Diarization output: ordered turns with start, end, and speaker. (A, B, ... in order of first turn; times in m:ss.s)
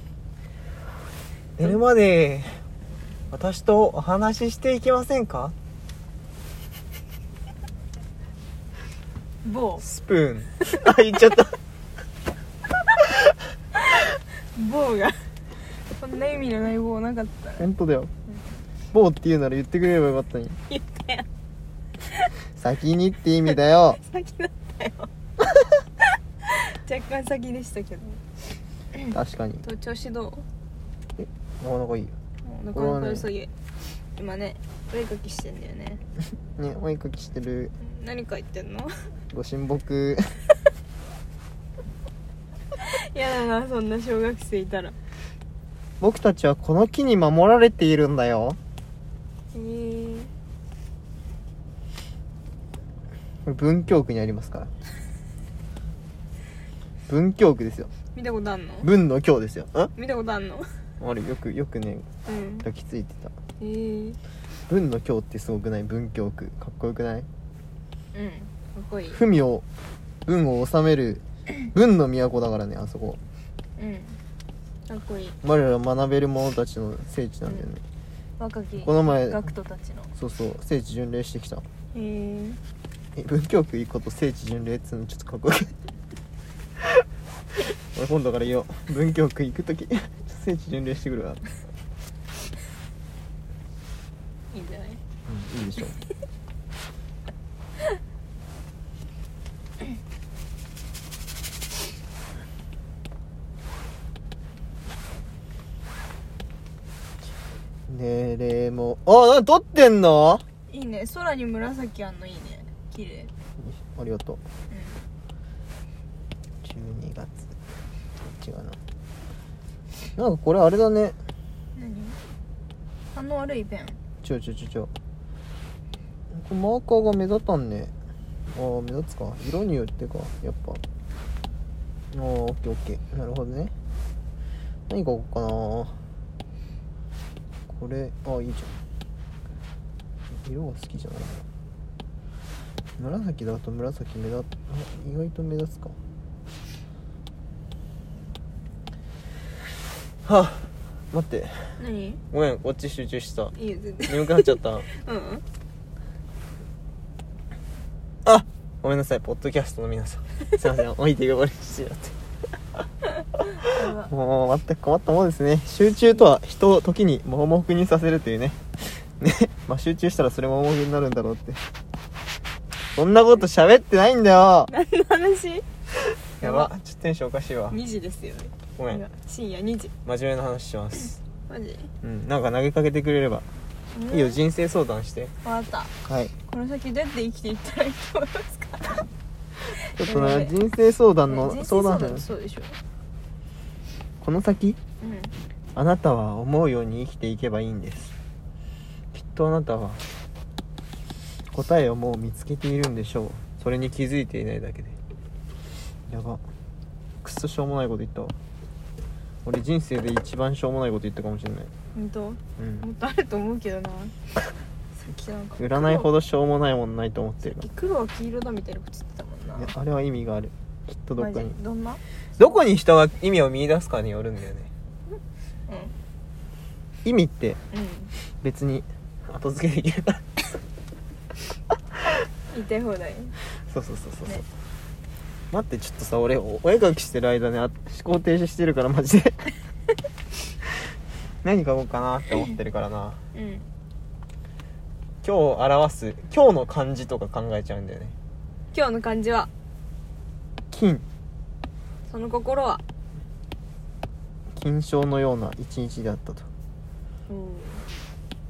0:01.6-0:02.6 A
0:03.3-0:05.6 A
0:09.4-0:09.8 B
0:09.8-0:11.6 A
0:10.8-0:11.3 B
0:13.8-0:15.2 B
0:15.8-0:17.7 B
0:17.6-0:18.1 A
0:18.9-0:20.6 A
0:20.7-0:21.3 B
0:22.6-0:24.0 A
0:23.5-0:25.1 B
0:26.4-0:28.2 B
0:29.0-0:30.4 B
0:29.1-0:29.6 A
0:31.2-0:32.2 A
0:32.4-0:36.0 B
0:32.7-0:33.3 A
0:36.6-0:37.7 A
0:37.8-0:38.9 B
0:39.3-0:40.3 A
0:42.8-0:45.0 B
0:46.0-0:48.6 A
0:49.5-0:50.3 B
0:53.5-0:54.7 A
0:57.1-0:57.9 A
0:58.1-0:58.9 B
0:58.8-0:59.9 A
1:00.0-1:00.7 B
1:01.0-1:02.1 A
1:02.3-1:02.7 B
1:02.6-1:03.3 A
1:03.6-1:04.2 B
1:04.7-1:07.3 A
1:08.1-1:09.2 B
1:09.1-1:09.6 A
1:10.3-1:13.2 A
1:13.8-1:14.2 B
1:14.9-1:15.4 B
1:15.4-1:17.8 A
1:18.4-1:20.1 B
1:18.8-1:19.4 A
1:20.2-1:21.6 A
1:21.9-1:22.6 B
1:23.2-1:25.7 A
1:27.9-1:31.4 A
1:34.5-1:35.0 B
1:35.3-1:36.0 A
1:47.9-1:50.4 A
1:50.7-1:53.3 B
1:53.6-1:54.4 A
1:54.7-1:55.0 B
1:56.6-1:57.5 A
1:58.2-1:58.8 A
2:00.2-2:01.2 A
2:01.8-2:02.2 B
2:03.1-2:04.0 B
2:04.2-2:04.9 A
2:06.3-2:07.9 A
2:08.5-2:10.8 A
2:12.1-2:13.7 A
2:14.9-2:16.0 A
2:17.7-2:18.7 A
2:20.3-2:21.5 A
2:23.0-2:26.0 A
2:30.2-2:31.7 A
2:31.8-2:32.2 B
2:32.3-2:33.6 A
2:33.6-2:35.4 B
2:34.1-2:34.9 A
2:38.2-2:42.2 A
2:43.6-2:44.1 B
2:44.0-2:51.6 A
2:53.0-2:54.7 A
2:54.7-2:55.6 B
2:56.4-2:56.7 B
2:56.4-2:57.8 A
2:57.7-2:59.9 B
3:00.0-3:01.2 A
3:01.5-3:01.9 B
3:02.0-3:03.5 A
3:03.9-3:04.4 B
3:04.1-3:05.3 A
3:05.4-3:05.9 B
3:06.0-3:06.3 A
3:06.5-3:09.1 B
3:09.7-3:10.6 B
3:10.0-3:12.3 A
3:11.2-3:12.8 B
3:14.2-3:14.8 A
3:15.0-3:15.3 B
3:15.8-3:18.1 A
3:19.1-3:20.0 A
3:21.5-3:25.0 A
3:26.1-3:26.4 A
3:27.2-3:28.4 A
3:29.4-3:31.7 A
3:31.9-3:34.2 B
3:32.6-3:32.8 A
3:35.0-3:36.1 B
3:35.6-3:37.6 A
3:37.6-3:39.8 B
3:39.6-3:41.6 A
3:41.2-3:42.5 B
3:42.4-3:44.7 A
3:45.7-3:46.0 B
3:47.0-3:47.6 A
3:47.7-3:48.1 B
3:48.4-3:50.2 A
3:52.5-3:53.4 B
3:53.7-3:54.4 A
3:55.5-3:59.5 A
4:01.4-4:03.2 A
4:03.3-4:03.7 B
4:05.2-4:08.2 A
4:08.7-4:09.5 B
4:10.7-4:11.0 A
4:12.1-4:12.8 B
4:14.6-4:16.5 A
4:17.3-4:17.9 B